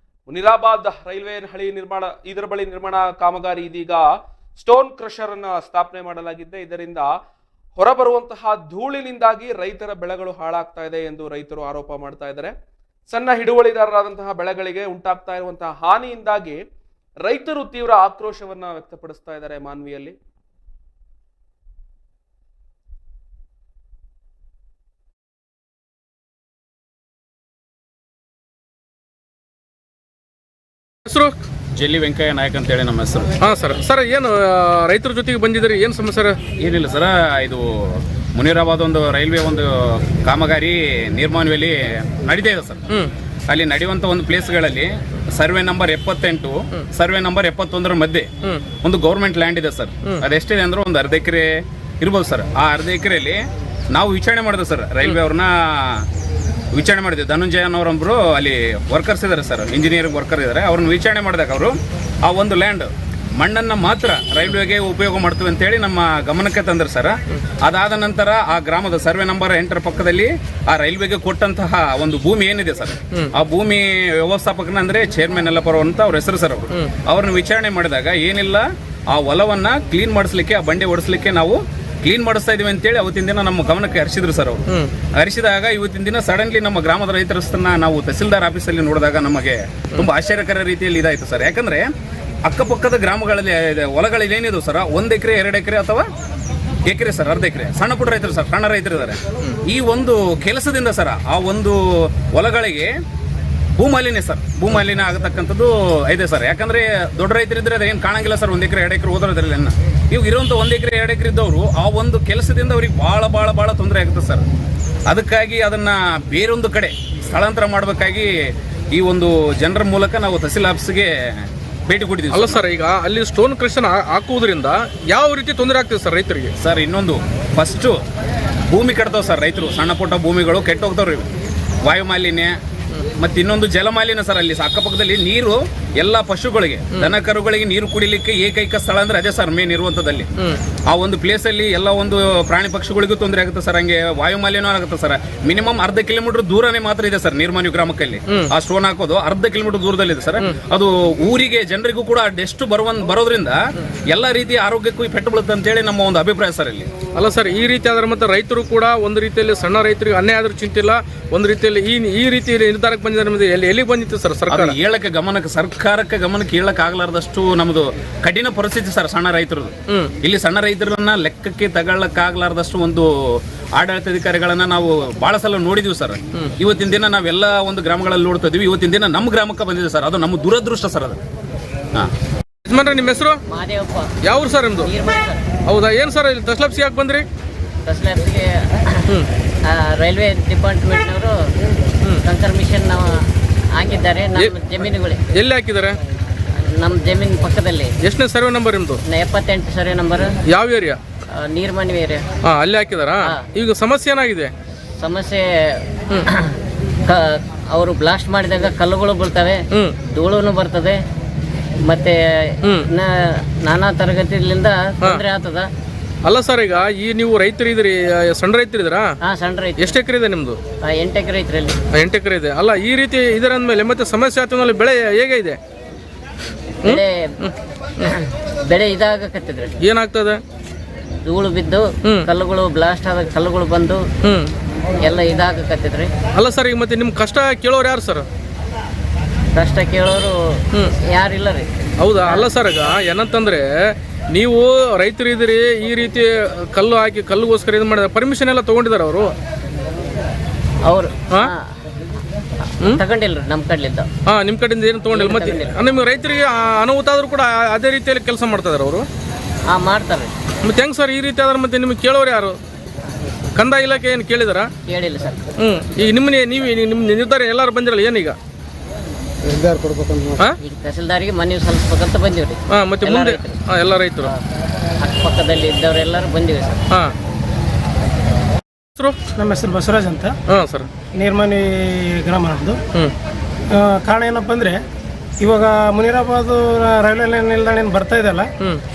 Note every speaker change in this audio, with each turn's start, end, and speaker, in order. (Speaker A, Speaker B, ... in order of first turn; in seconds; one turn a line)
Speaker A: 0.3-7.1
Speaker A: 7.8-12.5
Speaker A: 13.1-16.6
Speaker A: 17.2-20.1
Speaker B: 31.1-31.4
Speaker C: 31.7-33.3
Speaker B: 33.4-36.4
Speaker C: 36.6-42.8
Speaker C: 43.5-56.0
Speaker C: 56.7-91.9
Speaker C: 92.5-96.1
Speaker C: 96.9-102.9
Speaker C: 103.8-114.5
Speaker C: 115.1-118.3
Speaker C: 118.9-122.6
Speaker B: 122.3-126.5
Speaker C: 126.6-128.0
Speaker C: 128.7-131.3
Speaker C: 131.8-132.6
Speaker C: 133.2-140.3
Speaker C: 140.9-156.9
Speaker B: 157.2-164.8
Speaker C: 164.5-181.2
Speaker B: 169.9-170.1
Speaker B: 182.7-183.4
Speaker D: 183.5-184.1
Speaker B: 184.2-184.9
Speaker D: 184.8-185.4
Speaker B: 185.7-187.2
Speaker D: 187.8-189.1
Speaker D: 189.7-191.4
Speaker D: 192.2-195.2
Speaker B: 195.3-196.0
Speaker D: 196.6-197.9
Speaker B: 198.0-199.0
Speaker D: 199.1-200.4
Speaker B: 200.5-201.0
Speaker D: 201.3-202.2
Speaker B: 202.4-204.5
Speaker D: 205.0-211.0
Speaker D: 211.8-215.7
Speaker B: 216.2-219.1
Speaker D: 219.2-220.0
Speaker B: 219.8-220.6
Speaker D: 220.8-221.8
Speaker B: 221.9-225.6
Speaker D: 226.8-227.4
Speaker B: 226.8-227.5
Speaker D: 228.0-229.8
Speaker B: 229.8-230.4
Speaker D: 231.2-234.0
Speaker B: 234.2-234.5
Speaker D: 235.0-236.1
Speaker B: 236.3-238.2
Speaker D: 239.5-241.7
Speaker B: 242.0-249.3
Speaker D: 250.9-251.6
Speaker D: 252.8-254.1
Speaker B: 254.3-259.1
Speaker D: 255.1-255.8
Speaker D: 259.7-260.3
Speaker B: 260.6-262.6
Speaker B: 263.5-264.7
Speaker D: 264.9-265.4
Speaker B: 265.6-268.4
Speaker D: 270.6-273.6
Speaker B: 272.7-274.3
Speaker D: 275.0-276.8
Speaker E: 279.4-280.4
Speaker B: 280.5-280.9
Speaker E: 281.1-282.8
Speaker E: 283.7-284.8
Speaker E: 285.4-288.5